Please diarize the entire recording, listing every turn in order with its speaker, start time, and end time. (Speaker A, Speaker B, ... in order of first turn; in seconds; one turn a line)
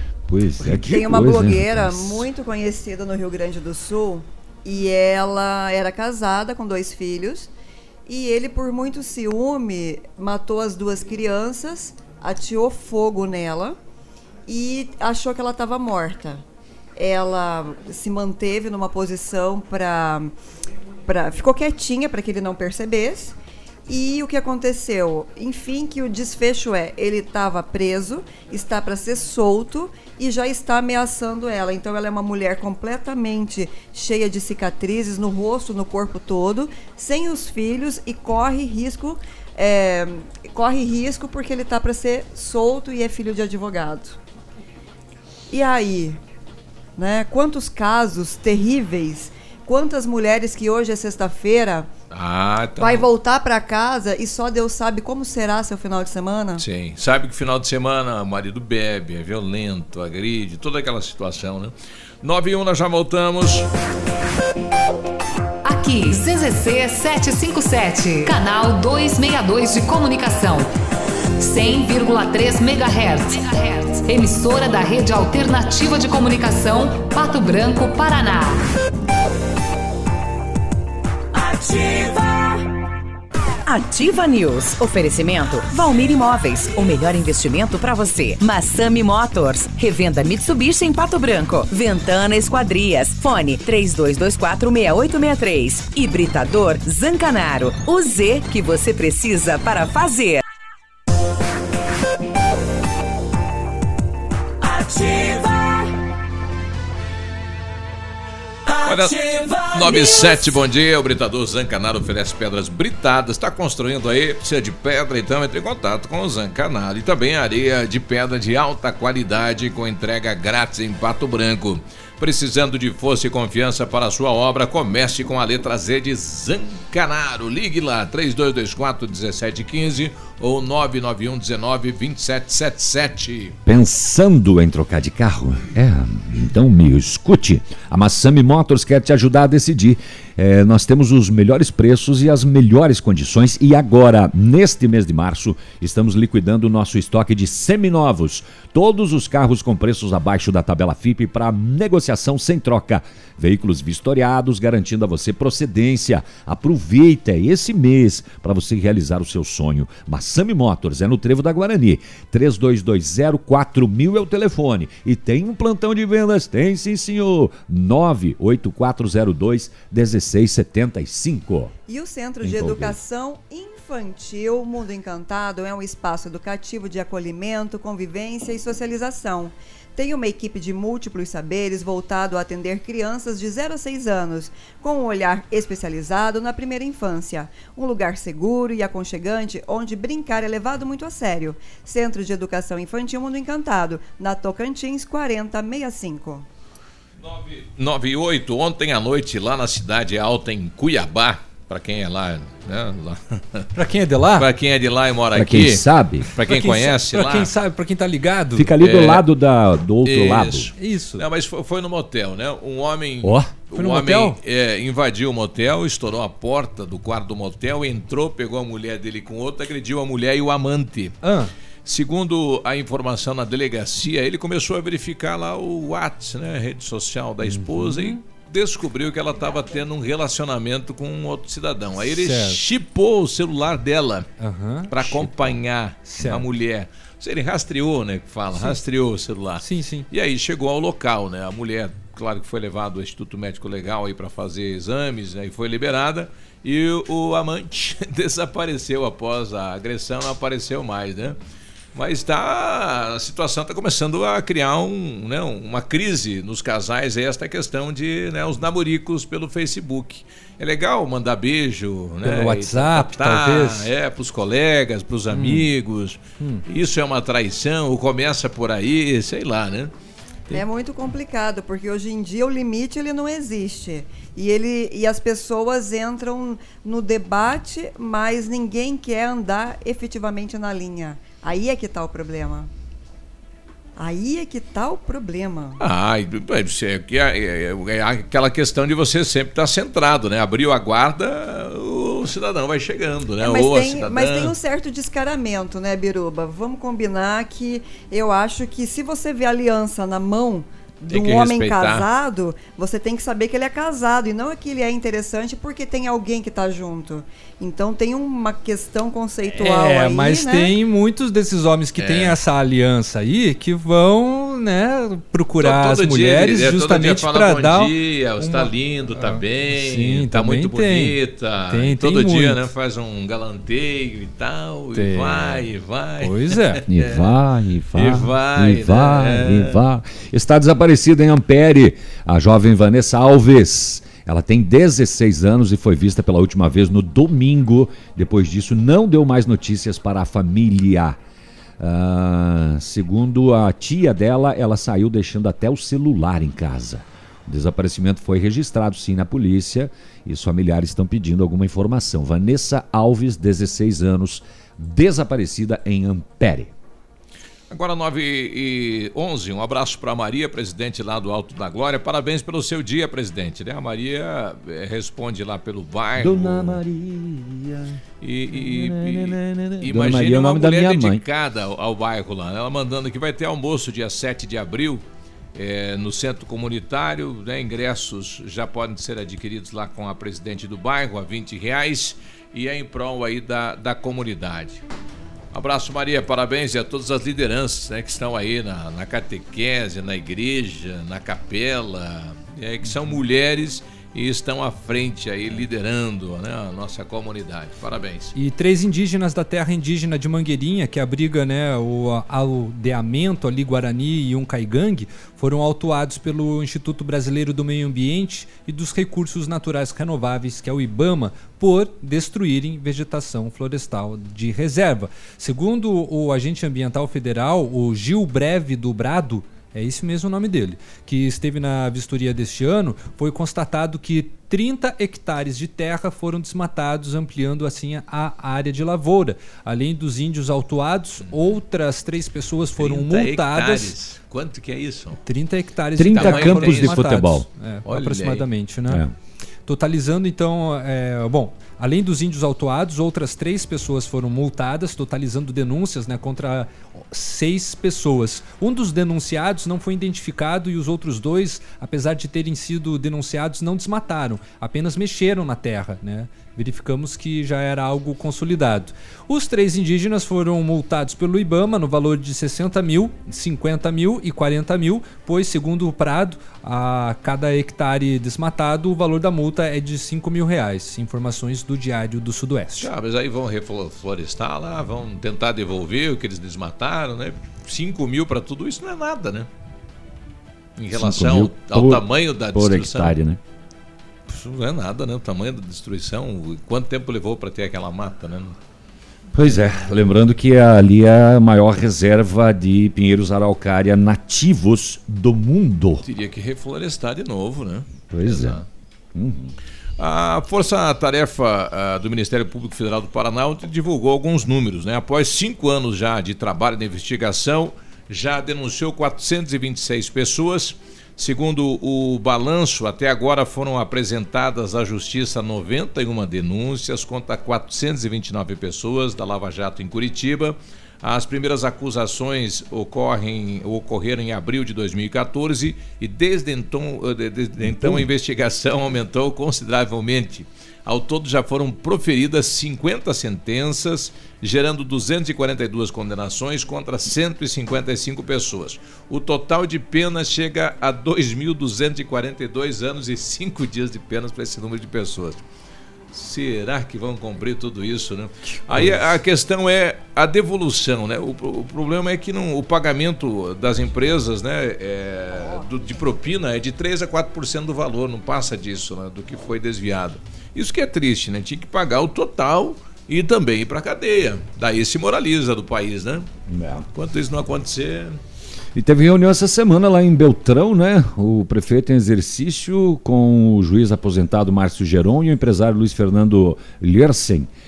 Speaker A: 0.3-2.3
Speaker B: 0.7-7.5
Speaker B: 8.1-13.8
Speaker B: 14.5-16.4
Speaker B: 17.0-20.3
Speaker B: 21.1-23.4
Speaker B: 23.9-44.2
Speaker B: 45.5-46.2
Speaker B: 47.0-51.9
Speaker C: 52.1-53.1
Speaker B: 52.8-56.6
Speaker C: 56.6-63.7
Speaker D: 65.7-70.7
Speaker D: 71.4-78.6
Speaker E: 83.7-100.4
Speaker C: 108.8-133.6
Speaker A: 133.7-171.7
Speaker B: 171.9-196.4
Speaker A: 172.4-173.0
Speaker C: 197.2-203.7
Speaker F: 203.8-204.5
Speaker C: 204.4-207.5
Speaker A: 205.3-206.3
Speaker F: 206.4-208.8
Speaker A: 208.6-210.7
Speaker C: 208.8-209.3
Speaker C: 210.1-221.2
Speaker F: 210.8-211.2
Speaker A: 213.2-213.6
Speaker F: 213.7-214.4
Speaker F: 221.2-221.5
Speaker C: 221.9-234.3
Speaker F: 227.4-228.2
Speaker F: 232.0-232.6
Speaker F: 234.4-235.5
Speaker C: 234.9-251.4
Speaker F: 236.0-236.5
Speaker F: 239.6-240.1
Speaker C: 251.9-269.9
Speaker F: 262.2-263.9
Speaker F: 265.3-265.7
Speaker B: 270.5-282.7
Speaker B: 284.0-285.8
Speaker C: 285.8-294.6
Speaker B: 293.4-310.8
Speaker C: 301.1-302.1
Speaker F: 309.6-321.2
Speaker C: 312.0-312.4
Speaker C: 315.6-327.3
Speaker F: 321.7-322.7
Speaker F: 324.9-325.6
Speaker F: 326.2-326.8
Speaker A: 326.9-341.2
Speaker C: 327.9-329.8
Speaker A: 341.8-356.7
Speaker C: 357.7-366.8
Speaker A: 366.2-368.0
Speaker C: 368.2-375.0
Speaker A: 368.5-371.2
Speaker C: 375.6-384.8
Speaker C: 385.5-398.3
Speaker F: 398.4-433.9
Speaker C: 431.2-431.6
Speaker C: 432.8-435.2
Speaker F: 435.2-439.1
Speaker A: 436.0-437.5
Speaker C: 436.1-437.2
Speaker C: 437.9-438.5
Speaker F: 439.7-472.9
Speaker C: 472.8-479.5
Speaker C: 480.8-483.1
Speaker A: 480.9-483.4
Speaker C: 484.3-488.6
Speaker A: 489.3-496.0
Speaker C: 496.0-498.6
Speaker A: 498.1-498.6
Speaker A: 499.1-499.5
Speaker C: 500.0-545.4
Speaker A: 527.8-528.1
Speaker C: 546.1-566.3
Speaker A: 548.7-549.0
Speaker A: 566.5-566.9
Speaker C: 566.9-568.2
Speaker A: 568.8-577.5